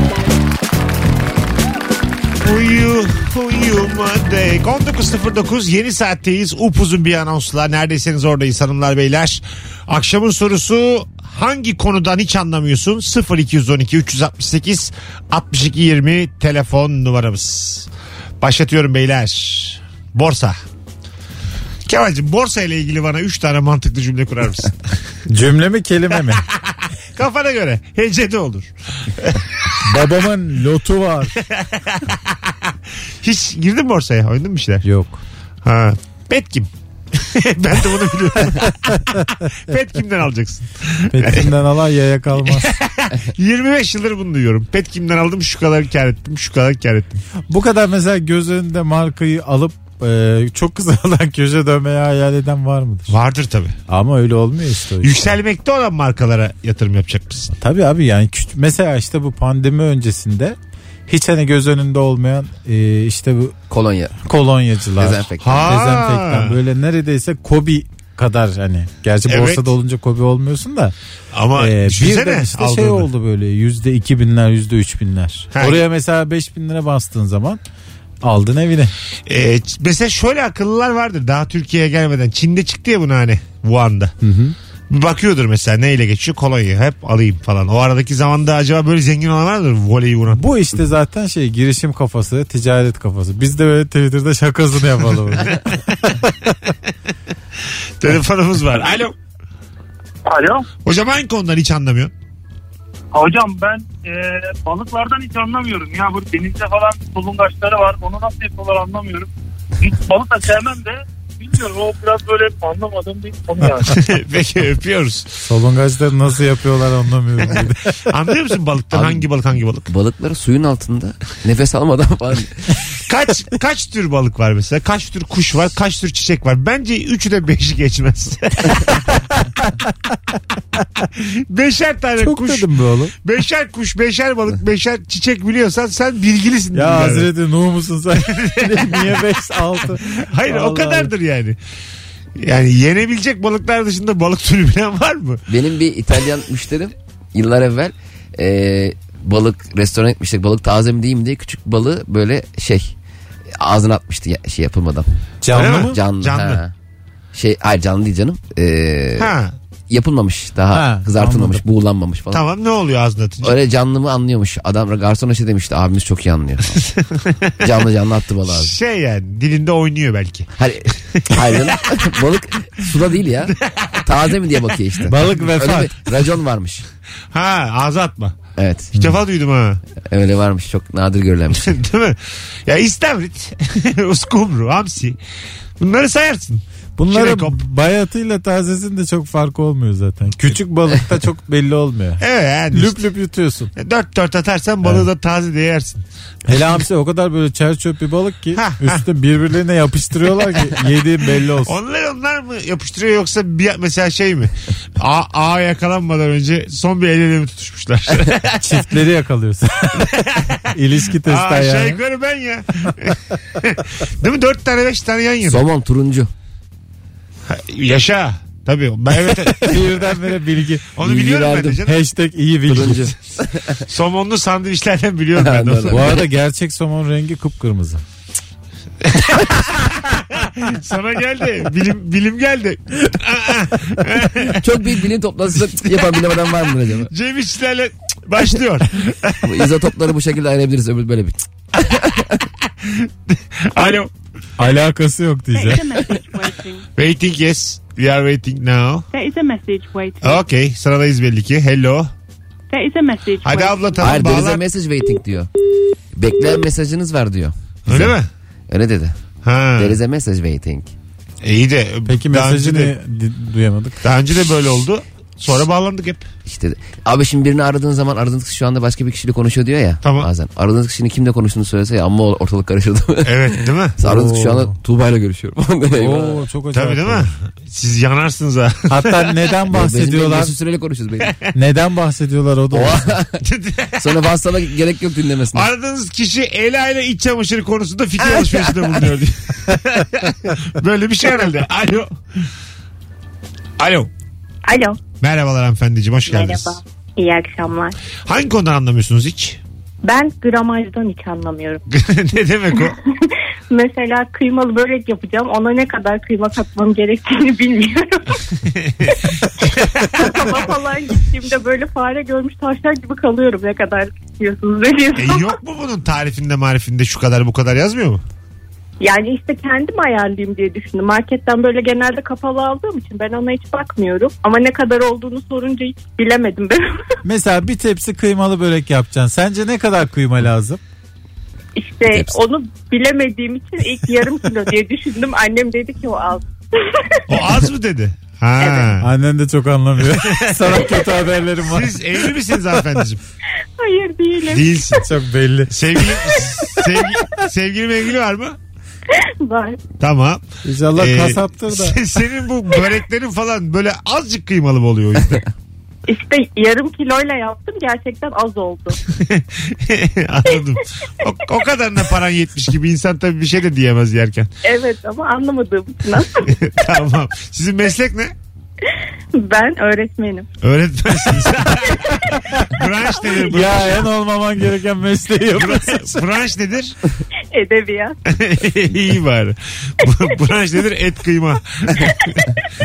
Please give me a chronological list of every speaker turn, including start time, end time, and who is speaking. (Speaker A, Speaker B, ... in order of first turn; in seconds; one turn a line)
Speaker A: 2.4-17.9
Speaker A: 18.4-20.6
Speaker A: 21.9-24.8
Speaker B: 25.3-26.4
Speaker A: 27.1-29.7
Speaker B: 29.8-31.3
Speaker A: 31.5-32.5
Speaker A: 33.2-34.8
Speaker B: 34.8-35.2
Speaker A: 35.6-41.5
Speaker B: 41.1-42.7
Speaker A: 42.4-47.2
Speaker B: 47.5-53.1
Speaker A: 53.1-53.7
Speaker B: 53.9-55.3
Speaker A: 55.0-57.5
Speaker B: 57.5-60.5
Speaker B: 61.1-63.5
Speaker C: 63.7-64.1
Speaker B: 64.2-70.9
Speaker C: 65.0-65.7
Speaker A: 65.4-66.5
Speaker A: 69.3-69.7
Speaker A: 71.3-73.1
Speaker B: 71.6-77.6
Speaker A: 75.5-75.8
Speaker B: 78.2-78.9
Speaker A: 79.3-84.1
Speaker B: 84.2-84.5
Speaker A: 84.9-90.4
Speaker B: 90.3-96.3
Speaker A: 98.0-99.1
Speaker D: 100.3-100.6
Speaker A: 100.8-102.1
Speaker D: 103.1-109.3
Speaker D: 109.8-114.0
Speaker A: 113.8-115.3
Speaker B: 115.4-118.0
Speaker A: 118.1-119.9
Speaker C: 118.9-119.3
Speaker C: 119.8-122.7
Speaker A: 123.0-129.0
Speaker B: 129.0-129.7
Speaker A: 131.2-137.3
Speaker B: 132.2-133.1
Speaker B: 136.7-141.1
Speaker A: 138.2-139.2
Speaker A: 140.1-141.6
Speaker A: 142.4-145.4
Speaker C: 145.5-152.9
Speaker C: 153.5-155.1
Speaker B: 155.4-156.0
Speaker A: 155.5-156.6
Speaker C: 155.7-156.7
Speaker C: 157.3-159.3
Speaker A: 159.2-159.6
Speaker C: 159.9-162.4
Speaker B: 160.7-161.6
Speaker A: 162.3-163.6
Speaker C: 163.4-166.8
Speaker A: 166.7-167.4
Speaker C: 167.6-168.7
Speaker A: 168.5-170.5
Speaker C: 170.6-176.8
Speaker A: 171.1-171.8
Speaker A: 173.6-174.1
Speaker B: 175.1-175.9
Speaker A: 177.3-178.4
Speaker C: 178.6-178.9
Speaker A: 179.0-179.8
Speaker C: 180.0-181.8
Speaker A: 181.6-185.2
Speaker A: 185.8-187.5
Speaker B: 187.0-192.2
Speaker A: 192.2-193.0
Speaker B: 192.7-193.7
Speaker A: 193.8-196.0
Speaker B: 194.8-195.1
Speaker B: 196.5-201.7
Speaker A: 198.6-199.0
Speaker A: 201.6-208.8
Speaker B: 208.6-210.1
Speaker A: 210.0-210.6
Speaker B: 210.7-212.0
Speaker A: 211.2-215.6
Speaker C: 215.4-216.3
Speaker A: 217.5-219.8
Speaker B: 219.6-220.8
Speaker A: 220.9-222.0
Speaker C: 221.0-221.8
Speaker B: 221.8-223.1
Speaker C: 222.7-223.8
Speaker A: 223.9-226.2
Speaker C: 225.3-226.3
Speaker B: 225.9-228.0
Speaker A: 229.0-234.6
Speaker C: 234.4-237.1
Speaker A: 237.1-239.7
Speaker C: 239.4-242.4
Speaker A: 242.8-244.1
Speaker B: 244.6-245.9
Speaker E: 245.5-246.8
Speaker A: 247.0-249.1
Speaker E: 249.1-250.4
Speaker A: 250.2-252.1
Speaker E: 252.7-254.1
Speaker A: 253.4-254.6
Speaker C: 254.0-255.5
Speaker C: 256.1-258.2
Speaker A: 257.9-258.3
Speaker C: 258.7-259.1
Speaker A: 259.4-260.0
Speaker C: 259.8-260.9
Speaker A: 261.4-262.9
Speaker B: 262.1-264.0
Speaker A: 264.0-266.2
Speaker C: 266.4-276.4
Speaker A: 270.0-270.3
Speaker A: 273.2-273.9
Speaker B: 274.0-274.8
Speaker B: 275.9-277.3
Speaker A: 276.7-279.2
Speaker B: 278.9-280.5
Speaker C: 279.7-281.3
Speaker B: 281.5-283.2
Speaker C: 282.7-283.4
Speaker A: 283.4-284.2
Speaker C: 284.0-285.7
Speaker A: 285.5-292.1
Speaker C: 288.2-288.9
Speaker A: 293.8-294.1
Speaker F: 294.7-295.0
Speaker A: 295.2-296.7
Speaker F: 296.2-297.9
Speaker A: 298.3-299.6
Speaker F: 300.0-301.8
Speaker A: 301.9-302.9
Speaker F: 302.8-308.4
Speaker A: 308.8-310.3
Speaker F: 309.1-315.6
Speaker A: 315.1-318.2
Speaker F: 319.0-326.8
Speaker B: 327.2-330.8
Speaker F: 331.8-337.6
Speaker C: 332.1-332.4
Speaker A: 337.3-339.1
Speaker F: 338.6-338.9
Speaker B: 339.0-342.0
Speaker A: 340.1-340.9
Speaker A: 341.6-343.2
Speaker F: 343.8-345.0
Speaker A: 344.5-345.0
Speaker B: 345.0-346.5
Speaker A: 345.7-348.6
Speaker F: 349.1-349.8
Speaker A: 350.0-350.4
Speaker B: 350.6-352.0
Speaker A: 350.9-355.5
Speaker F: 356.1-359.0
Speaker A: 359.1-364.5
Speaker F: 364.6-366.6
Speaker A: 366.5-368.3
Speaker F: 369.3-370.5
Speaker A: 370.6-374.0
Speaker F: 373.3-373.7
Speaker B: 373.5-376.2
Speaker A: 375.6-376.9
Speaker F: 377.5-378.2
Speaker A: 378.3-382.5